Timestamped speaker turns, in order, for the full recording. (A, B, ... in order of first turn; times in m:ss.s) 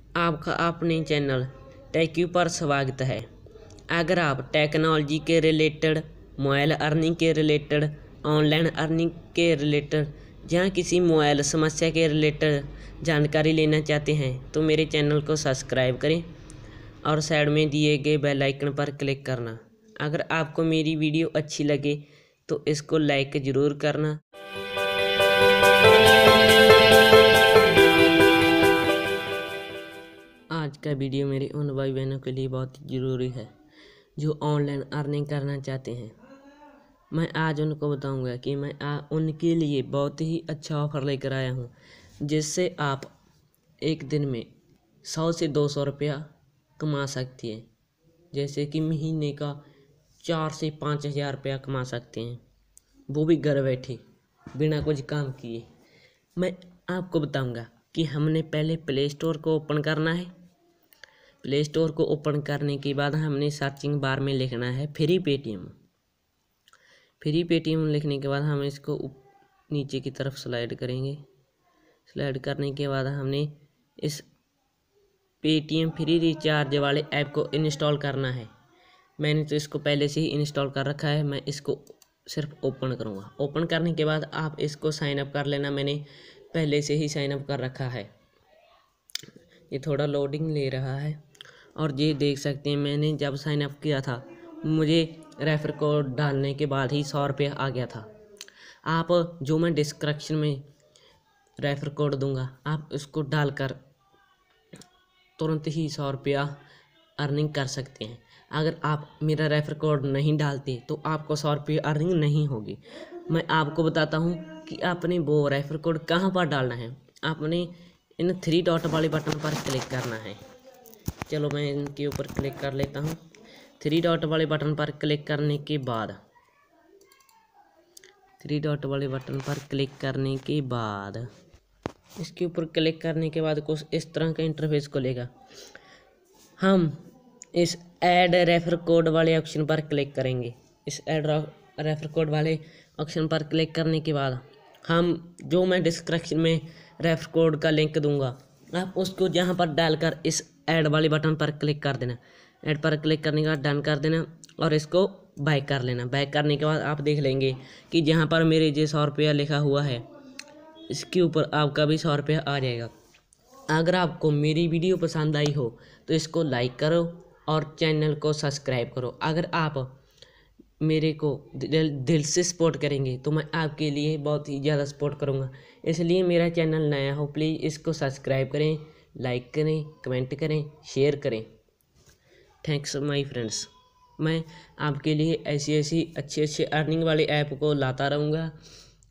0:00.1-0:03.3 A
0:03.9-0:16.3 A
0:17.0-0:24.2 A
0:30.5-0:33.5 A
0:34.2-0:36.1 A
0:37.1-0:43.1 A
0:43.8-0:44.5 A
0:45.0-0:46.3 A
0:46.8-0:47.7 A
0:48.3-0:49.6 A
0:50.2-0:52.4 A
0:53.1-0:54.0 A
0:54.5-0:55.6 A
0:56.4-1:00.3 A
1:01.4-1:05.7 A
1:07.2-1:11.2 A
1:12.1-1:14.2 A
1:15.4-1:18.5 A
1:19.2-1:28.1 A
1:29.7-1:31.2 A
1:31.7-1:38.1 A
1:38.8-1:40.6 A
1:41.6-1:43.8 A
1:45.4-1:46.5 A
1:47.2-2:00.4 A
2:01.3-2:03.2 A
2:03.8-2:06.2 A
2:08.4-2:11.3 A
2:12.2-2:15.3 A
2:16.6-2:40.0 A
2:40.9-2:42.9 A
2:43.7-2:49.9 A
2:50.8-3:01.5 A
3:02.6-3:08.5 A